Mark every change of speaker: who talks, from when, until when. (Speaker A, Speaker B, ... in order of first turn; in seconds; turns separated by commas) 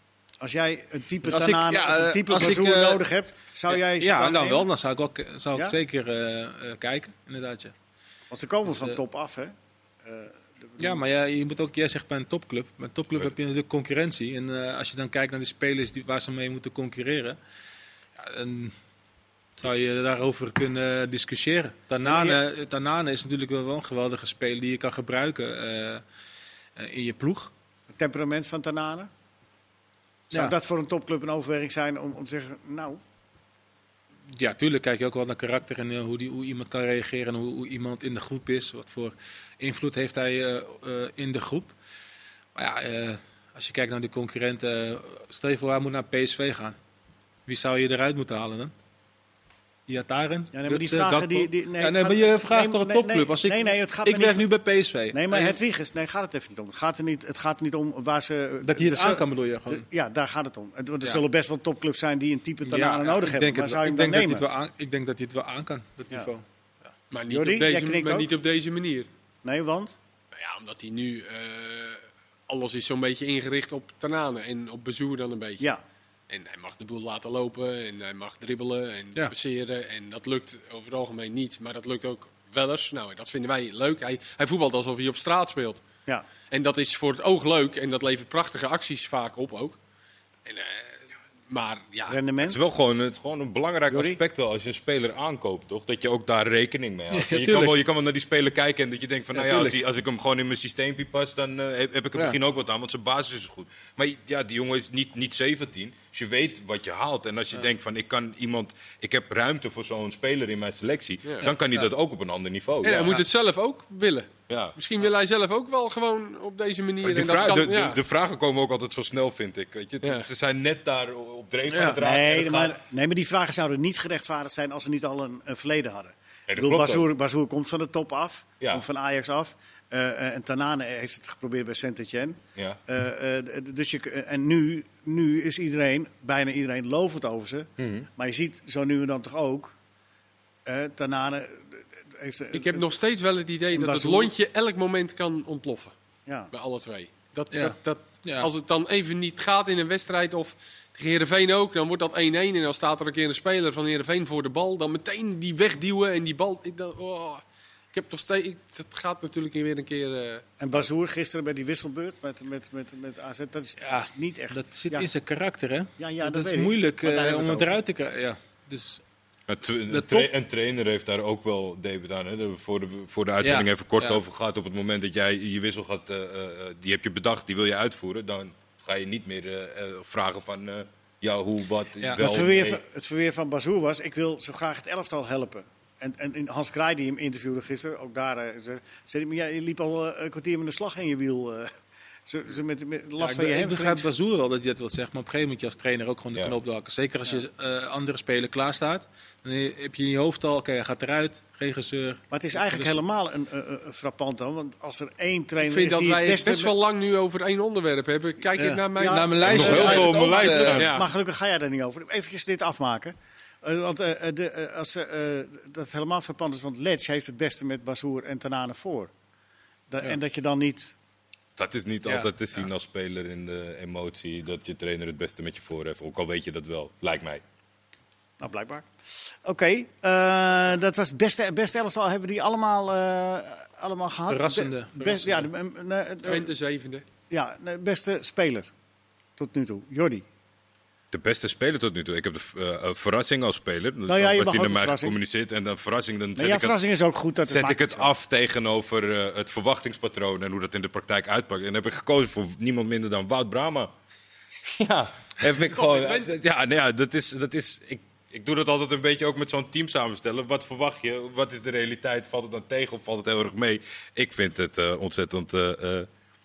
Speaker A: 0.4-4.7, Speaker B: 1.3-3.0, Speaker B: 3.7-7.7, Speaker A: 8.3-11.0, Speaker B: 8.7-9.0, Speaker B: 10.8-17.4, Speaker B: 18.2-18.7, Speaker B: 19.6-26.0, Speaker A: 22.0-22.4, Speaker B: 26.8-27.5, Speaker A: 27.9-29.1, Speaker A: 30.3-33.0, Speaker B: 34.3-41.7, Speaker B: 42.5-46.8, Speaker B: 47.5-48.7, Speaker B: 49.9-55.6, Speaker A: 50.5-54.5, Speaker A: 55.1-64.5, Speaker B: 58.6-59.9, Speaker B: 62.6-66.9, Speaker C: 67.1-69.1, Speaker A: 67.3-68.3, Speaker A: 69.4-70.0, Speaker C: 70.3-75.7, Speaker C: 76.3-85.8, Speaker C: 86.5-89.8, Speaker C: 90.5-92.2, Speaker A: 92.1-92.6, Speaker D: 92.4-113.2, Speaker A: 93.9-94.2, Speaker B: 97.1-97.8, Speaker B: 99.3-99.8, Speaker B: 111.4-111.9, Speaker C: 112.8-118.0, Speaker D: 114.5-114.8, Speaker D: 117.0-122.8, Speaker C: 120.0-120.3, Speaker B: 121.7-122.0, Speaker A: 122.0-139.7, Speaker D: 126.5-127.1, Speaker D: 137.8-138.1, Speaker A: 140.7-142.9, Speaker C: 142.5-145.9, Speaker A: 143.7-144.3, Speaker A: 146.3-146.5, Speaker C: 146.5-157.4, Speaker B: 147.5-148.5, Speaker C: 157.9-160.5, Speaker A: 160.6-165.1, Speaker B: 163.8-169.0, Speaker A: 166.0-167.8, Speaker D: 169.5-182.8, Speaker B: 169.9-170.3, Speaker B: 173.4-174.2, Speaker B: 182.0-182.3, Speaker A: 182.2-191.7, Speaker A: 192.3-194.1, Speaker B: 193.2-203.0, Speaker A: 202.3-206.7, Speaker C: 205.6-211.1, Speaker B: 208.6-210.9, Speaker A: 209.0-219.1, Speaker D: 209.4-211.0, Speaker A: 219.9-220.9, Speaker D: 221.6-227.4, Speaker B: 222.1-222.7, Speaker A: 228.4-236.5, Speaker B: 234.3-235.5, Speaker C: 236.2-237.1, Speaker A: 237.3-238.7, Speaker A: 239.4-240.2, Speaker D: 241.1-246.8, Speaker A: 244.1-245.2, Speaker A: 246.4-248.1, Speaker D: 247.5-253.9, Speaker D: 254.6-266.1, Speaker C: 255.7-256.4